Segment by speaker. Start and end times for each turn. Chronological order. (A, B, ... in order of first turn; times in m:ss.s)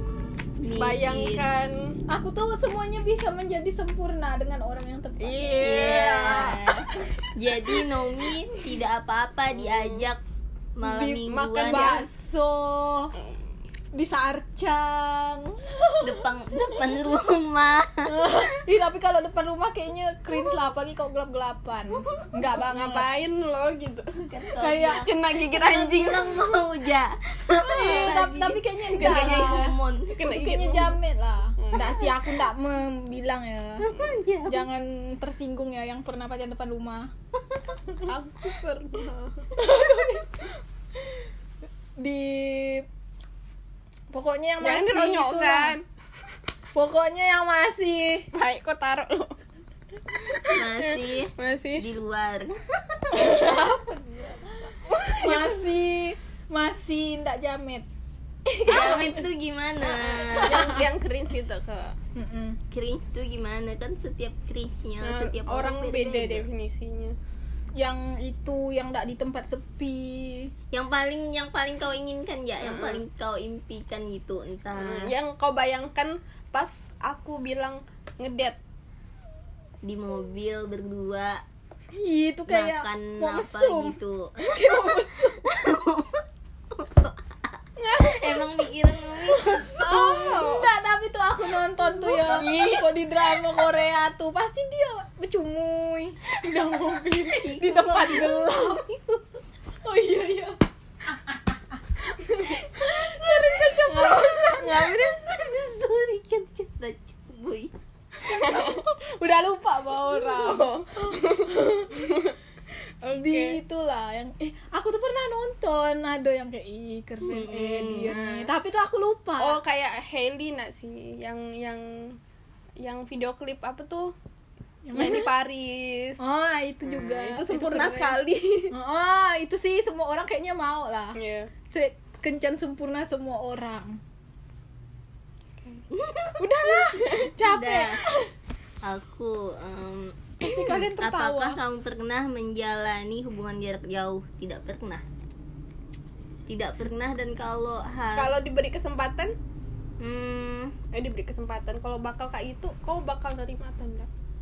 0:00.6-0:01.4 A
0:00.7-0:02.0 B
0:02.1-0:06.5 C
0:05.2-0:06.9 B
0:05.6-0:10.2 A
0:09.6-0:10.1 B
0:10.8-0:12.0 A
0:10.8-0:13.1 C
0:11.3-0:12.0 B
0:13.9-0:16.2 C
0:16.0-0:18.4 A
0:18.0-0:23.1 C
0:22.1-0:24.2 B
0:24.2-0:30.1 A
0:24.6-0:25.0 C
0:24.9-0:26.4 B
0:27.5-0:33.9 C
0:27.8-0:28.1 B
0:29.0-0:31.0 B
0:31.6-0:31.9 B
0:31.8-0:32.1 A
0:33.8-0:34.7 A
0:34.5-0:37.1 C
0:38.0-0:39.5 B
0:39.5-0:40.5 C
0:42.0-0:42.9 C
0:44.1-0:45.8 C
0:44.6-0:45.8 B
0:46.7-0:48.3 C
0:48.3-0:49.3 B
0:50.2-0:51.9 B
0:50.4-0:53.3 A
0:53.1-0:57.9 C
0:54.9-0:55.6 B
0:58.5-0:59.2 C
0:58.6-1:00.8 A
0:59.8-1:02.0 B
1:00.4-1:00.9 C
1:02.2-1:02.6 C
1:02.7-1:06.5 A
1:05.0-1:07.1 B
1:07.8-1:10.5 C
1:10.7-1:15.1 A
1:12.6-1:13.0 B
1:14.8-1:18.6 B
1:19.8-1:21.4 A
1:21.9-1:25.4 C
1:22.5-1:30.0 A
1:27.8-1:28.4 B
1:29.5-1:30.7 B
1:29.7-1:38.8 C
1:32.2-1:32.8 B
1:32.2-1:32.5 A
1:37.3-1:39.2 A
1:39.8-1:40.6 C
1:41.1-1:41.6 C
1:42.1-1:42.6 B
1:42.7-1:47.7 A
1:42.8-1:44.6 C
1:43.9-1:45.2 B
1:48.2-1:52.2 C
1:48.3-1:48.8 B
1:50.0-1:52.4 B
1:53.0-1:53.6 B
1:53.1-1:59.6 C
1:57.2-1:58.2 A
1:58.1-1:58.5 B
1:59.4-2:02.2 B
2:02.8-2:04.1 B
2:04.9-2:05.3 C
2:04.9-2:06.2 B
2:06.2-2:08.2 C
2:06.9-2:08.7 B
2:08.7-2:11.2 C
2:11.2-2:11.5 B
2:11.7-2:14.0 C
2:15.9-2:18.0 A
2:16.4-2:17.3 B
2:16.6-2:18.2 C
2:18.8-2:25.0 A
2:20.4-2:21.6 C
2:26.5-2:28.4 A
2:28.2-2:29.3 B
2:30.0-2:30.8 A
2:30.9-2:34.1 B